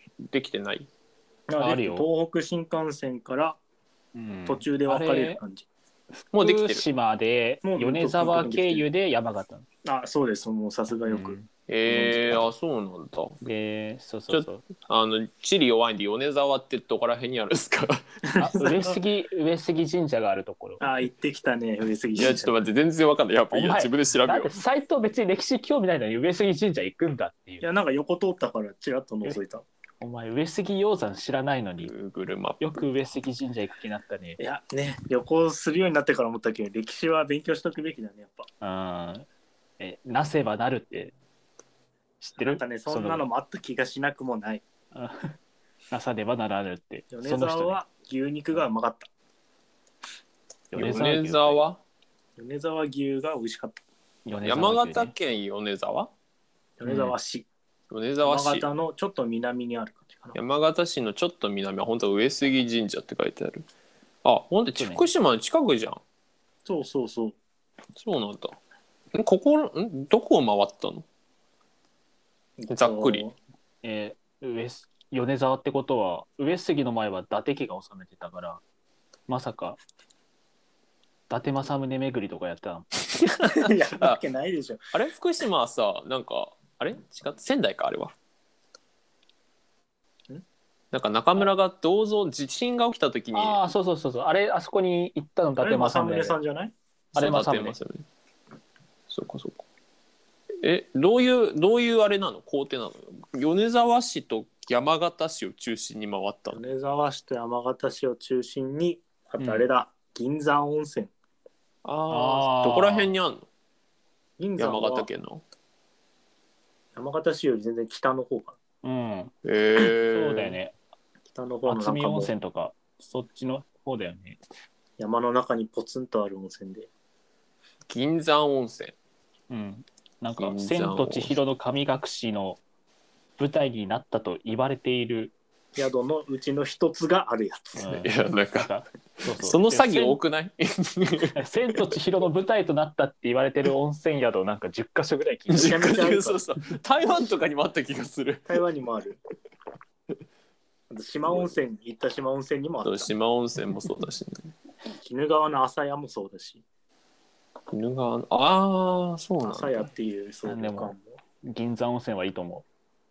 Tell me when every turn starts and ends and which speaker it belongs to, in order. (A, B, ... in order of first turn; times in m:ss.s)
0:00.2-0:00.9 A
0:01.5-0:03.6 B
0:01.6-0:02.1 C
0:04.1-0:05.4 C
0:04.4-0:05.7 B
0:04.9-0:05.2 A
0:06.3-0:06.8 A
0:06.4-0:09.6 C
0:07.6-0:08.8 B
0:09.8-0:12.5 B
0:11.1-0:11.5 C
0:11.7-0:13.4 A
0:13.4-0:14.6 C
0:14.3-0:18.0 A
0:18.3-0:19.0 B
0:18.4-0:20.8 C
0:20.8-0:22.5 B
0:22.2-0:24.6 A
0:23.5-0:27.6 C
0:27.6-0:29.6 B
0:30.0-0:31.9 C
0:31.8-0:32.6 A
0:32.6-0:34.4 C
0:34.4-0:38.5 B
0:38.6-0:39.3 C
0:39.8-0:41.1 C
0:42.2-0:43.2 C
0:42.4-0:44.6 B
0:44.9-0:45.4 C
0:45.9-0:47.8 C
0:47.1-0:49.1 B
0:50.7-0:51.6 C
0:50.7-0:51.8 A
0:52.4-0:53.8 B
0:54.2-0:55.1 C
0:54.4-0:56.1 A
0:56.8-0:57.5 B
0:56.8-0:57.1 C
0:57.9-0:58.6 A
0:58.2-1:00.4 B
1:00.3-1:03.6 A
1:04.2-1:06.0 A
1:04.7-1:05.1 C
1:06.6-1:07.4 B
1:08.0-1:08.6 A
1:09.1-1:11.0 A
1:12.6-1:13.3 B
1:12.7-1:13.2 A
1:13.8-1:18.6 C
1:19.3-1:19.8 C
1:21.3-1:22.9 C
1:23.2-1:24.2 A
1:23.5-1:24.8 B
1:24.9-1:28.1 A
1:30.9-1:33.6 A
1:33.3-1:36.4 C
1:35.6-1:36.7 B
1:37.1-1:38.0 A
1:37.1-1:37.8 C
1:39.1-1:39.6 A
1:40.6-1:46.6 A
1:46.5-1:51.1 B
1:49.4-1:49.7 C
1:51.8-1:53.5 A
1:52.1-1:53.1 C
1:54.4-1:55.1 B
1:54.6-1:55.4 A
1:57.0-1:58.6 B
1:58.8-1:59.3 C
1:59.4-2:00.6 A
2:00.1-2:00.7 C
2:01.3-2:02.3 B
2:01.6-2:04.4 C
2:05.0-2:06.9 B
2:07.9-2:08.9 A
2:09.5-2:12.6 C
2:10.4-2:11.3 A
2:13.4-2:15.3 C
2:15.8-2:17.9 B
2:17.8-2:20.2 C
2:17.9-2:18.7 A
2:19.4-2:21.4 A
2:21.3-2:25.9 C
2:25.5-2:28.5 A
2:25.6-2:26.4 B
2:28.5-2:29.2 B
2:30.9-2:33.1 B
2:32.8-2:34.5 A
2:35.0-2:36.6 B
2:37.7-2:39.9 A
2:39.4-2:41.2 B
2:40.4-2:42.6 C